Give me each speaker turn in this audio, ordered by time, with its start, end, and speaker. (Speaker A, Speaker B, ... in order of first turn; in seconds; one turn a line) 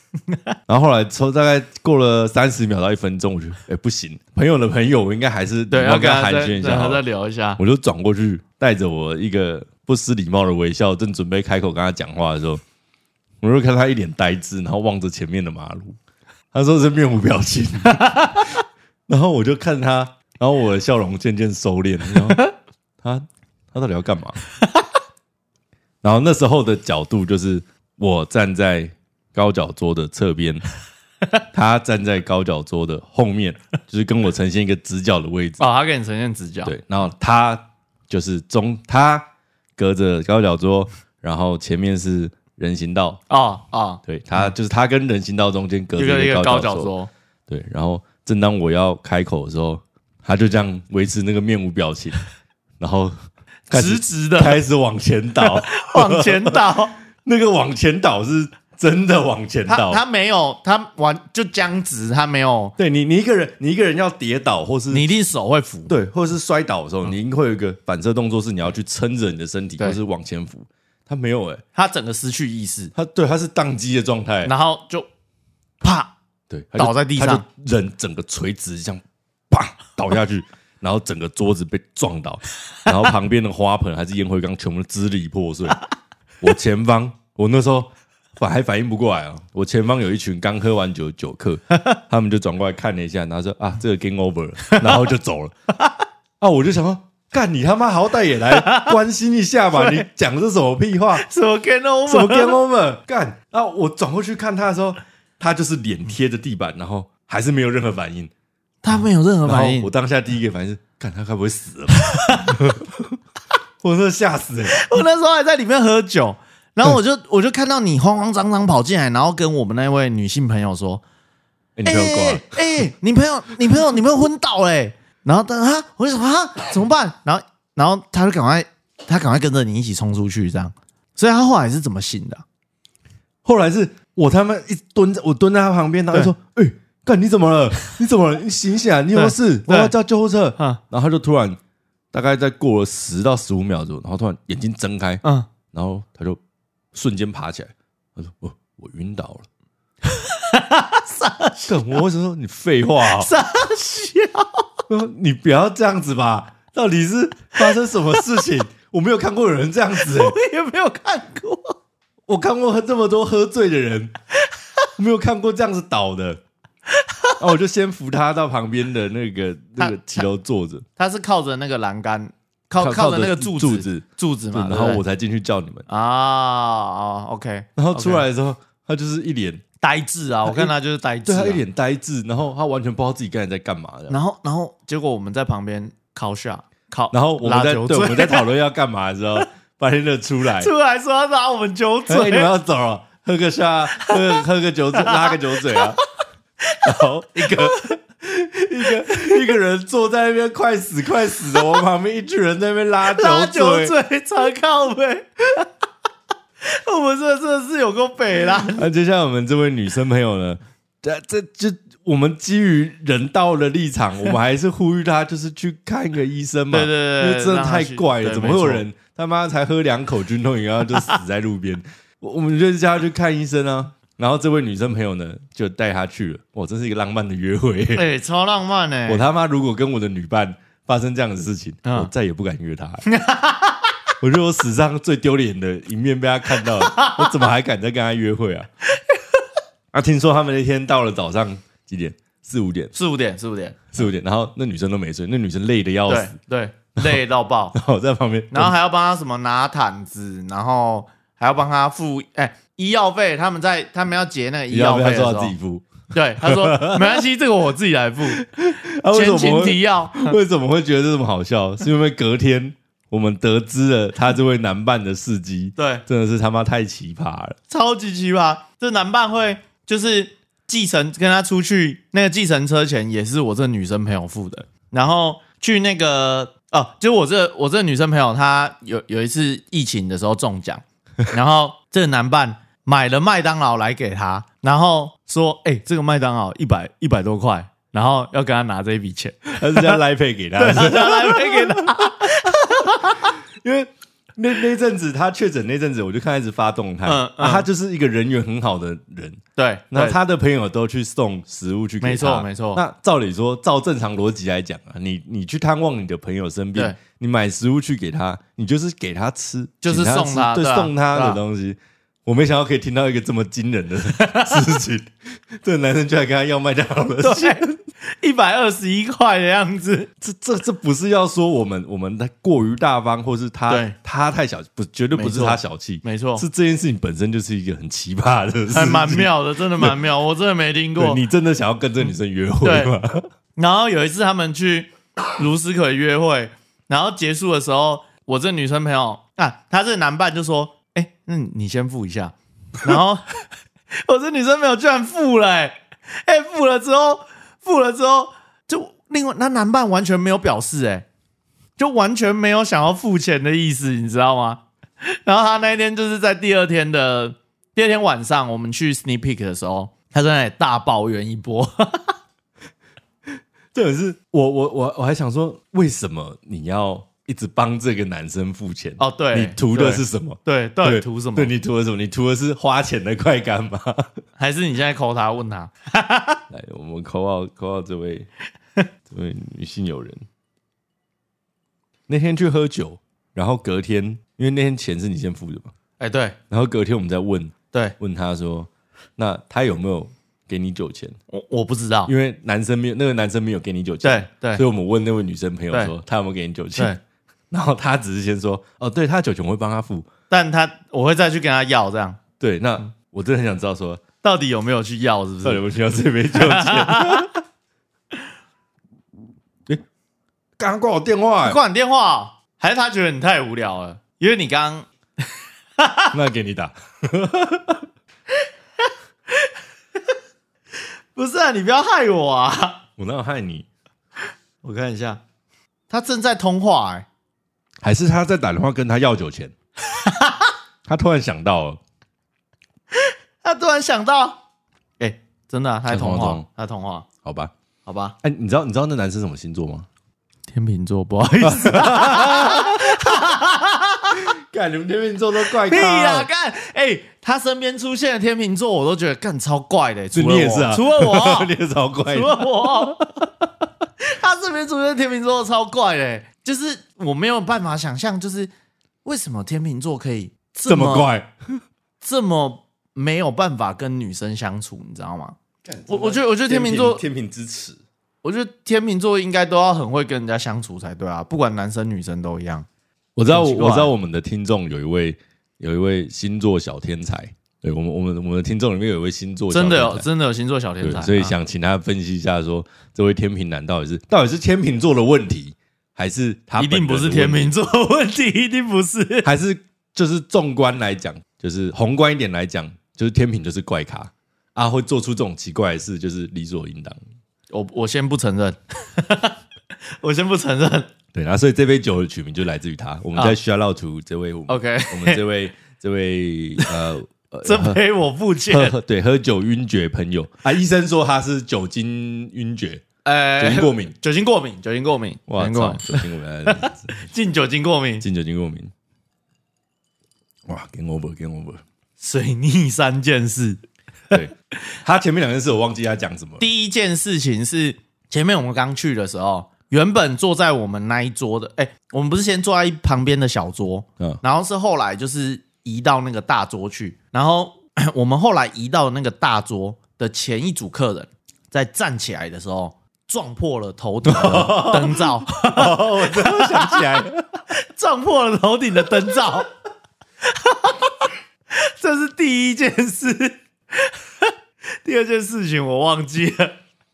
Speaker A: 0.7-7.0
Speaker B: 5.7-7.6
Speaker A: 7.6-12.6
Speaker A: 13.4-16.0
Speaker A: 16.5-18.4
Speaker B: 18.0-18.5
Speaker A: 19.1-22.4
Speaker A: 23.0-24.4
Speaker A: 26.0-30.6
Speaker A: 31.5-35.6
Speaker B: 35.6-36.7
Speaker A: 36.6-43.2
Speaker B: 43.3-44.5
Speaker A: 44.0-46.9
Speaker B: 46.0-47.1
Speaker A: 47.5-52.2
Speaker A: 52.8-53.2
Speaker B: 53.7-54.6
Speaker A: 53.7-56.6
Speaker B: 55.4-57.0
Speaker A: 57.2-60.0
Speaker B: 59.7-62.8
Speaker A: 62.8-65.1
Speaker B: 64.9-65.9
Speaker A: 65.9-71.6
Speaker B: 71.8-72.9
Speaker A: 73.0-74.5
Speaker B: 74.5-75.1
Speaker B: 75.8-76.1
Speaker A: 76.5-85.8
Speaker B: 76.8-77.5
Speaker A: 86.4-95.5
Speaker B: 94.7-95.0
Speaker A: 96.4-101.3
Speaker B: 98.5-99.0
Speaker B: 99.7-100.0
Speaker B: 101.2-102.6
Speaker A: 102.1-108.3
Speaker B: 108.8-109.9
Speaker A: 109.5-113.2
Speaker B: 112.0-112.6
Speaker A: 113.8-114.8
Speaker B: 114.7-121.0
Speaker A: 121.8-122.9
Speaker B: 121.9-132.4
Speaker A: 133.4-141.6
Speaker B: 139.1-139.9
Speaker A: 142.1-146.4
Speaker A: 146.9-149.5
Speaker B: 150.3-152.0
Speaker A: 151.7-153.3
Speaker B: 153.1-154.7
Speaker A: 154.9-160.3
Speaker B: 160.0-161.8
Speaker A: 162.3-164.1
Speaker A: 165.0-166.4
Speaker B: 167.0-167.4
Speaker A: 167.4-170.8
Speaker B: 169.8-170.2
Speaker B: 171.0-175.0
Speaker A: 172.8-175.8
Speaker B: 175.9-178.2
Speaker A: 177.8-179.6
Speaker B: 179.8-181.6
Speaker A: 180.5-180.7
Speaker A: 181.3-184.2
Speaker B: 184.1-188.5
Speaker A: 187.1-190.7
Speaker B: 190.6-192.5
Speaker A: 192.1-196.0
Speaker B: 195.0-195.9
Speaker A: 196.8-203.9
Speaker B: 197.4-197.9
Speaker B: 199.0-199.4
Speaker B: 203.1-205.7
Speaker B: 206.6-208.9
Speaker A: 208.8-228.1
Speaker B: 216.7-218.8
Speaker B: 227.9-229.2
Speaker A: 229.1-233.1
Speaker B: 231.8-232.1
Speaker B: 233.1-233.9
Speaker A: 234.2-238.7
Speaker B: 236.7-237.3
Speaker A: 239.9-242.9
Speaker B: 242.9-244.1
Speaker A: 243.9-246.3
Speaker B: 246.1-247.8
Speaker A: 247.7-248.7
Speaker B: 248.5-255.6
Speaker A: 254.7-255.9
Speaker B: 256.1-258.4
Speaker A: 256.4-257.2
Speaker A: 258.3-267.6
Speaker B: 259.1-260.4
Speaker B: 265.8-266.1
Speaker B: 267.7-290.0
Speaker A: 289.6-292.3
Speaker B: 290.6-293.3
Speaker A: 293.6-317.8
Speaker B: 297.1-297.7
Speaker B: 299.6-300.2
Speaker B: 302.0-302.8
Speaker B: 309.8-311.4
Speaker B: 314.1-314.6
Speaker B: 317.2-320.1
Speaker A: 320.2-330.0
Speaker B: 323.7-323.9
Speaker B: 325.1-326.4
Speaker B: 328.7-331.2
Speaker A: 331.0-333.3
Speaker B: 332.6-332.9
Speaker B: 333.6-343.3
Speaker B: 344.0-351.1
Speaker B: 351.8-362.1
Speaker A: 363.7-374.1
Speaker B: 369.0-371.5
Speaker B: 374.4-376.4
Speaker A: 376.5-378.3
Speaker A: 379.1-380.2
Speaker A: 382.1-385.7
Speaker B: 386.0-386.4
Speaker A: 386.5-391.2
Speaker B: 391.3-392.1
Speaker A: 392.1-396.9
Speaker B: 394.0-394.6
Speaker A: 397.5-400.1
Speaker B: 400.3-402.2
Speaker A: 402.4-404.0
Speaker B: 404.2-405.6
Speaker A: 405.4-407.3
Speaker B: 406.3-407.3
Speaker A: 410.6-411.6
Speaker B: 411.4-414.9
Speaker B: 415.8-416.1
Speaker A: 416.1-417.9
Speaker B: 421.1-422.8
Speaker A: 423.0-423.7
Speaker B: 424.6-425.2
Speaker B: 425.9-427.1
Speaker A: 427.8-429.5
Speaker B: 429.9-430.5
Speaker A: 430.9-431.8
Speaker B: 433.0-434.4
Speaker B: 435.0-437.1
Speaker A: 435.9-436.5
Speaker A: 437.2-437.5
Speaker B: 437.9-438.2
Speaker A: 438.2-439.9
Speaker B: 440.5-444.2
Speaker A: 441.4-443.0
Speaker A: 444.2-446.3
Speaker B: 445.6-451.5
Speaker A: 450.1-453.0
Speaker B: 452.1-453.1
Speaker B: 454.1-458.5
Speaker B: 459.0-461.1
Speaker A: 460.7-461.6
Speaker B: 462.0-465.4
Speaker A: 465.6-467.8
Speaker B: 465.9-467.0
Speaker B: 468.2-472.7
Speaker A: 473.2-480.1
Speaker B: 473.3-473.9
Speaker B: 479.5-481.4
Speaker A: 480.8-487.5
Speaker B: 486.6-489.3
Speaker A: 489.2-497.0
Speaker B: 497.5-499.4
Speaker B: 500.0-500.9
Speaker A: 501.1-507.8
Speaker B: 504.5-505.2
Speaker B: 507.4-508.8
Speaker A: 508.5-512.8
Speaker B: 513.0-518.0
Speaker A: 513.4-514.0
Speaker A: 515.3-517.1
Speaker A: 518.0-518.7
Speaker A: 520.5-521.6
Speaker B: 522.0-523.6
Speaker A: 524.1-526.5
Speaker B: 526.4-547.0
Speaker A: 544.0-547.4
Speaker B: 547.5-549.5
Speaker B: 550.3-554.3
Speaker B: 554.8-556.6